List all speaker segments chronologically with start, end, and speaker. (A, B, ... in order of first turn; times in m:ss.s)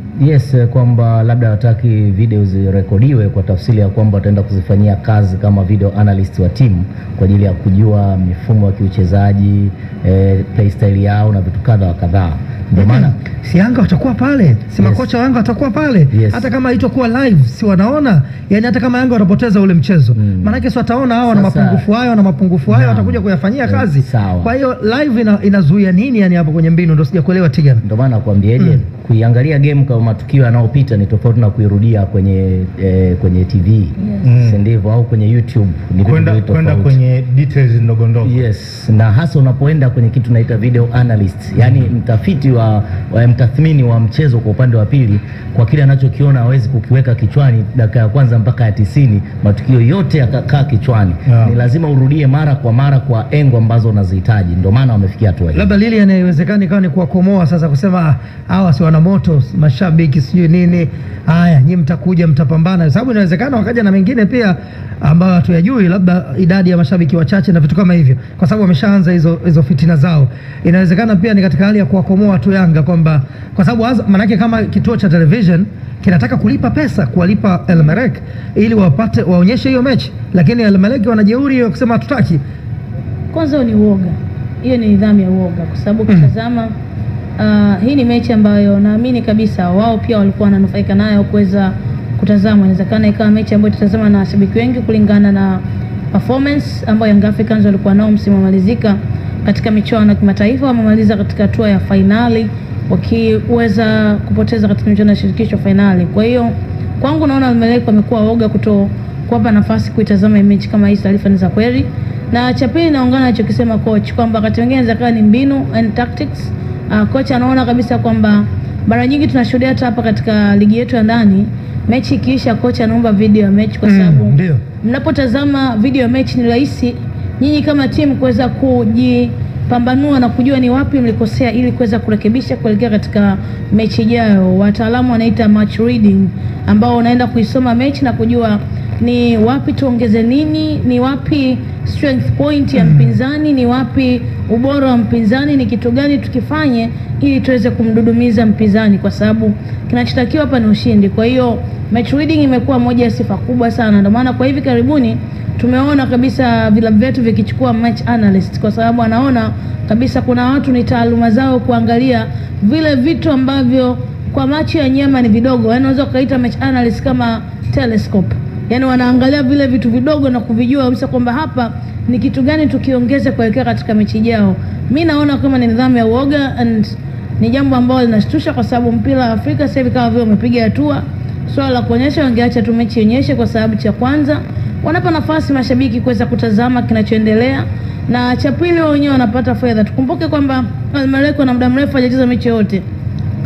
0:00.2-0:13.2 A
0:12.8-0:27.8 B
0:14.8-0:15.1 A
0:16.1-0:16.5 A
0:20.2-0:20.6 A
0:21.3-0:21.9 A
0:22.7-0:24.5 A
0:27.8-0:37.0 A
0:34.2-0:34.6 C
0:36.0-0:38.4 C
0:38.2-0:55.7 A
0:51.3-0:51.6 C
0:55.5-1:22.4 B
1:23.3-1:26.7 D
1:27.4-3:12.8 D
2:03.8-2:04.6 B
2:22.7-2:23.2 B